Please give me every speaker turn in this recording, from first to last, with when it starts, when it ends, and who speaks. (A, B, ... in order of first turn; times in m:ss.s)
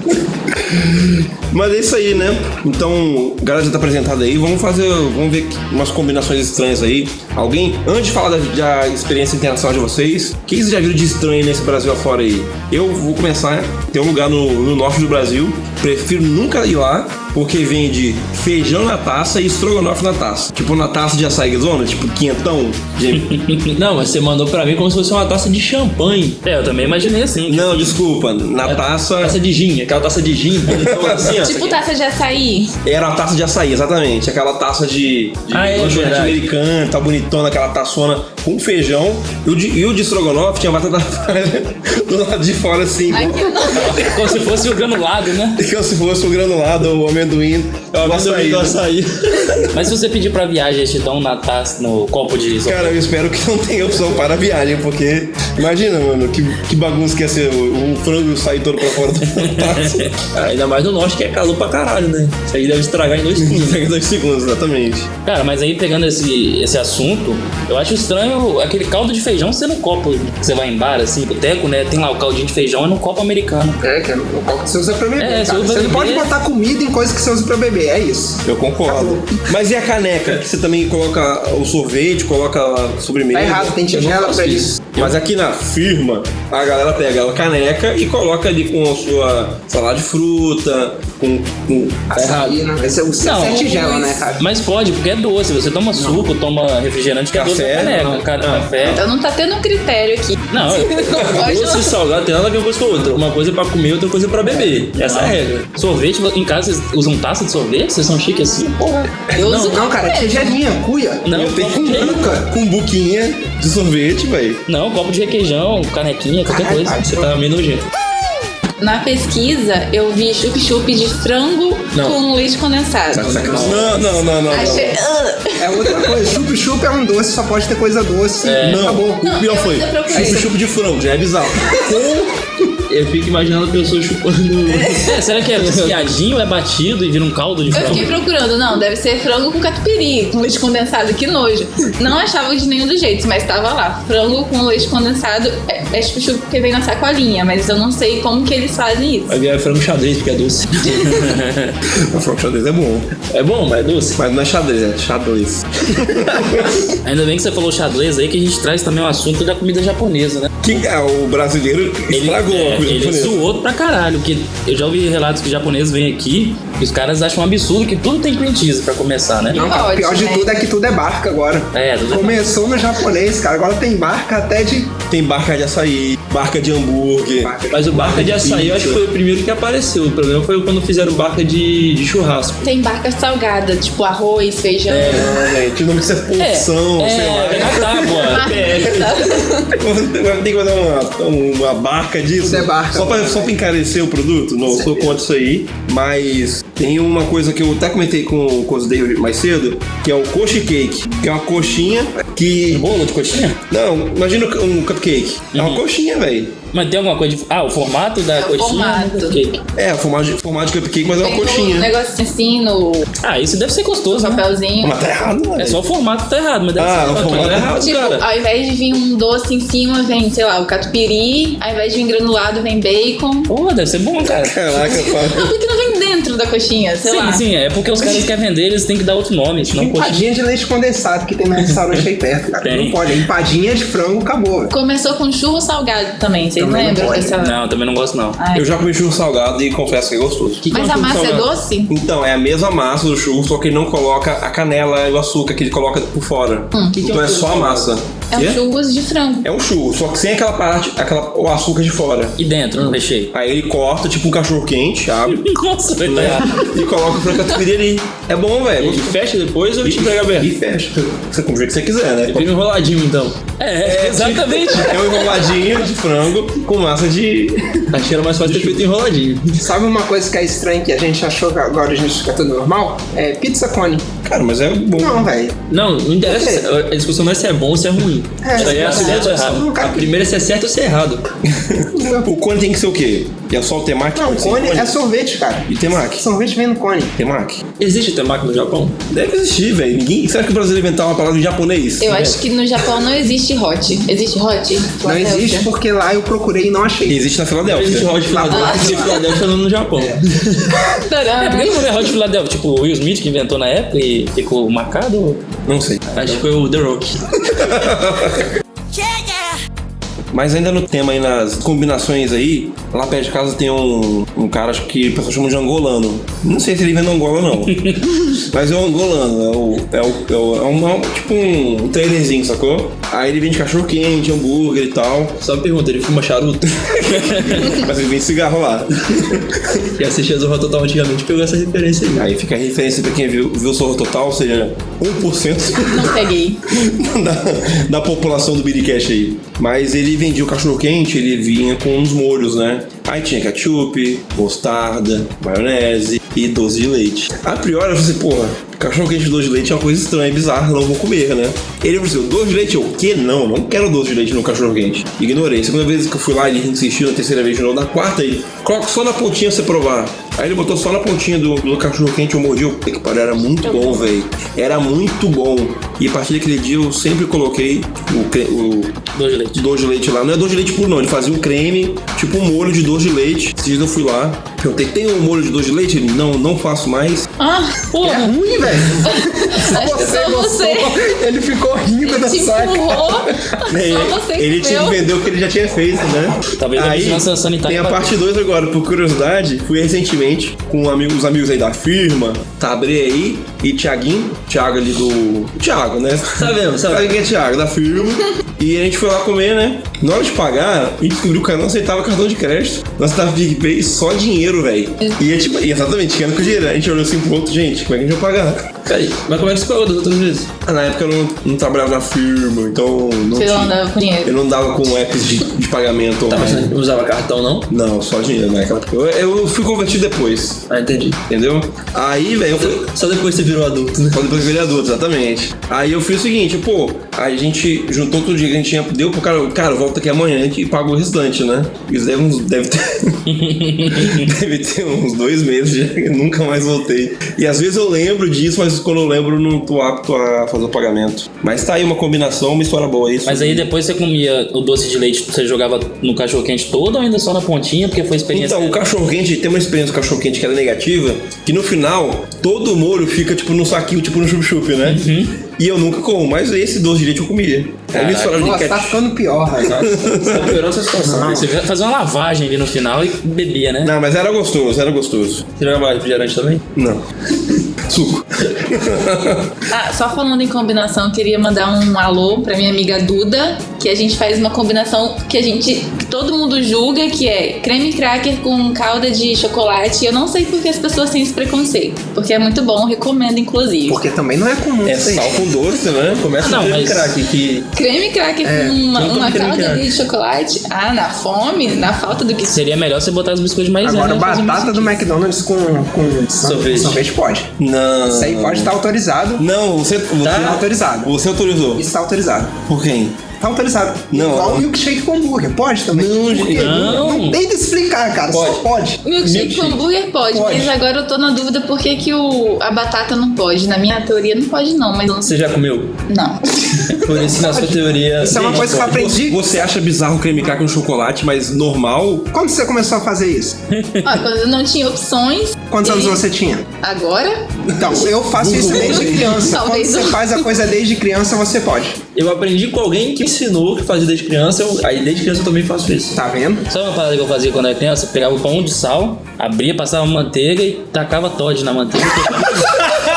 0:00.6-0:23.4 A
0:23.7-0:26.4 B
0:26.4-0:28.0 C
0:27.5-0:29.4 A
0:28.7-0:31.8 B
0:30.7-0:31.5 A
0:31.4-0:32.7 D
0:32.8-0:44.1 A
0:35.5-0:36.4 C
0:35.7-0:36.3 B
0:43.1-0:44.1 D
0:43.8-0:45.6 C
0:45.6-0:48.8 A
0:48.0-0:49.7 B
0:49.4-0:49.7 A
0:49.7-0:53.0 C
0:52.7-1:00.1 A
0:59.4-1:00.1 C
1:00.3-1:03.8 B
1:03.4-1:05.1 A
1:05.2-1:13.8 C
1:13.8-1:19.4 E
1:15.2-1:16.3 C
1:18.4-1:23.8 A
1:23.3-1:24.9 E
1:23.8-1:25.1 B
1:25.0-1:32.2 A
1:32.1-1:34.5 E
1:32.2-1:32.6 B
1:33.2-1:39.0 C
1:36.0-1:36.3 E
1:37.3-1:38.9 A
1:38.8-1:42.0 D
1:40.5-1:41.2 C
1:41.3-1:45.7 B
1:44.9-1:49.2 C
1:49.3-1:50.6 D
1:49.3-1:52.5 E
1:51.2-1:52.4 C
1:51.8-1:54.6 A
1:54.7-1:57.1 C
1:56.5-1:57.4 E
1:57.0-1:57.9 B
1:58.8-2:03.6 D
2:03.2-2:03.9 B
2:03.2-2:03.9 E
2:03.4-2:03.9 C
2:03.5-2:05.0 A
2:04.5-2:06.1 D
2:05.6-2:09.3 E
2:08.4-2:08.9 C
2:08.6-2:12.3 A
2:09.2-2:10.5 D
2:10.1-2:10.4 E
2:12.9-2:16.1 B
2:15.1-2:18.1 C
2:17.7-2:29.4 D
2:29.3-2:31.2 B
2:31.0-2:31.7 C
2:31.9-2:33.1 A
2:33.2-2:34.2 B
2:34.2-2:36.8 A
2:37.0-2:40.7 C
2:40.6-2:43.4 A
2:42.1-2:49.6 C
2:49.5-2:55.0 E
2:49.6-2:50.5 D
2:51.7-2:52.5 C
2:55.1-2:59.0 A
2:57.4-2:58.7 E
2:57.7-3:02.7 B
3:02.6-3:05.3 D
3:04.9-3:05.4 C
3:05.0-3:05.7 B
3:05.1-3:05.5 E
3:05.7-3:09.1 A
3:06.4-3:08.6 C
3:08.2-3:09.7 D
3:09.7-3:23.0 A
3:12.4-3:13.6 E
3:22.7-3:23.6 C
3:23.6-3:26.6 A
3:25.5-3:25.8 C
3:26.7-3:29.6 C
3:28.4-3:29.4 D
3:29.8-3:31.9 A
3:31.2-3:33.1 D
3:33.2-3:34.4 C
3:34.1-3:34.9 D
3:34.8-3:35.8 A
3:35.6-3:38.2 C
3:36.8-3:38.2 A
3:37.8-3:43.5 D
3:43.5-3:45.0 C
3:44.2-3:45.5 A
3:45.2-3:47.4 D
3:47.0-3:50.2 C
3:49.7-3:54.7 E
3:52.6-3:53.0 C
3:54.7-3:57.6 D
3:56.6-3:57.4 E
3:57.4-3:58.4 C
3:58.4-3:58.7 D
3:58.6-4:08.6 A
4:00.7-4:01.9 D
4:06.7-4:07.8 D
4:08.3-4:09.5 D
4:09.4-4:12.4 A
4:12.4-4:13.3 C
4:13.3-4:15.4 A
4:15.3-4:16.6 C
4:16.0-4:19.2 A
4:18.8-4:20.5 B
4:19.8-4:22.5 A
4:22.3-4:23.4 B
4:23.6-4:25.4 C
4:23.8-4:28.8 A
4:27.9-4:29.6 B
4:29.6-4:34.1 E
4:34.2-4:35.3 A
4:35.0-4:35.6 E
4:35.7-4:41.3 B
4:36.2-4:36.7 E
4:38.4-4:40.1 E
4:38.6-4:39.6 C
4:41.6-4:45.0 A
4:41.9-4:42.3 E
4:44.2-4:47.2 E
4:45.7-4:46.3 A
4:47.2-4:47.7 A
4:47.8-4:49.0 B
4:49.1-4:52.2 A
4:52.0-4:55.7 D
4:52.1-4:52.4 B
4:55.0-4:57.2 E
4:57.1-4:58.2 A
4:57.6-5:00.8 B
4:58.2-4:59.4 E
4:58.5-4:59.2 D
5:01.0-5:01.8 D
5:01.4-5:05.4 C
5:05.7-5:06.4 A
5:06.2-5:07.2 B
5:07.5-5:08.5 A
5:10.3-5:25.4 A
5:25.4-5:27.3 B
5:27.1-5:29.8 A
5:30.0-5:32.3 B
5:32.1-6:17.3 A
5:35.9-5:36.6 D
6:09.1-6:09.6 C
6:17.4-6:17.9 D
6:17.9-6:18.4 C
6:18.0-6:23.2 E
6:19.0-6:21.0 D
6:22.0-6:25.1 D
6:23.7-6:48.7 A
6:26.6-6:28.1 C
6:36.4-6:37.1 B
6:48.9-6:50.5 B
6:50.6-6:56.7 A
6:53.3-6:54.4 D
6:56.3-6:57.7 B
6:57.7-7:00.6 A
7:00.7-7:01.2 B
7:01.3-7:02.9 A
7:02.6-7:04.2 B
7:04.1-7:23.7 A
7:13.4-7:14.3 C
7:23.2-7:28.8 C
7:28.3-7:39.0 A
7:34.8-7:35.4 C
7:37.9-7:38.4 C
7:38.3-7:41.5 E
7:39.7-7:41.4 B
7:39.8-7:40.6 A
7:41.2-7:43.9 C
7:43.8-7:45.5 A
7:45.6-7:46.6 B
7:46.7-7:47.1 A
7:47.8-7:49.5 A
7:49.7-8:04.0 D
8:03.9-8:05.4 E
8:04.8-8:06.5 A
8:06.1-8:07.7 B
8:06.4-8:07.2 C
8:07.7-8:12.6 D
8:08.4-8:08.8 E
8:08.9-8:09.9 B
8:12.5-8:15.0 C
8:13.8-8:17.5 E
8:16.4-8:17.0 B
8:17.6-8:18.7 A
8:18.1-8:19.4 E
8:19.4-8:21.9 A
8:20.2-8:21.1 E
8:21.8-8:22.6 E
8:22.7-8:23.3 A
8:23.4-8:29.1 E
8:24.1-8:24.7 A
8:25.9-8:27.1 A
8:26.6-8:27.4 C
8:28.3-8:28.7 B
8:29.0-8:35.4 D
8:29.2-8:29.8 B
8:30.3-8:30.7 E
8:35.2-8:36.0 B
8:36.1-8:37.0 D
8:36.9-8:39.0 B
8:37.4-8:39.5 E
8:38.4-8:42.3 A
8:42.3-8:43.6 E
8:43.7-8:44.2 C
8:44.0-8:46.2 D
8:45.7-8:46.7 E
8:46.8-8:50.5 D
8:47.7-8:52.0 E
8:48.4-8:49.3 B
8:48.4-8:49.3 A
8:52.2-8:56.2 B
8:56.2-8:56.7 E
8:56.7-9:02.7 C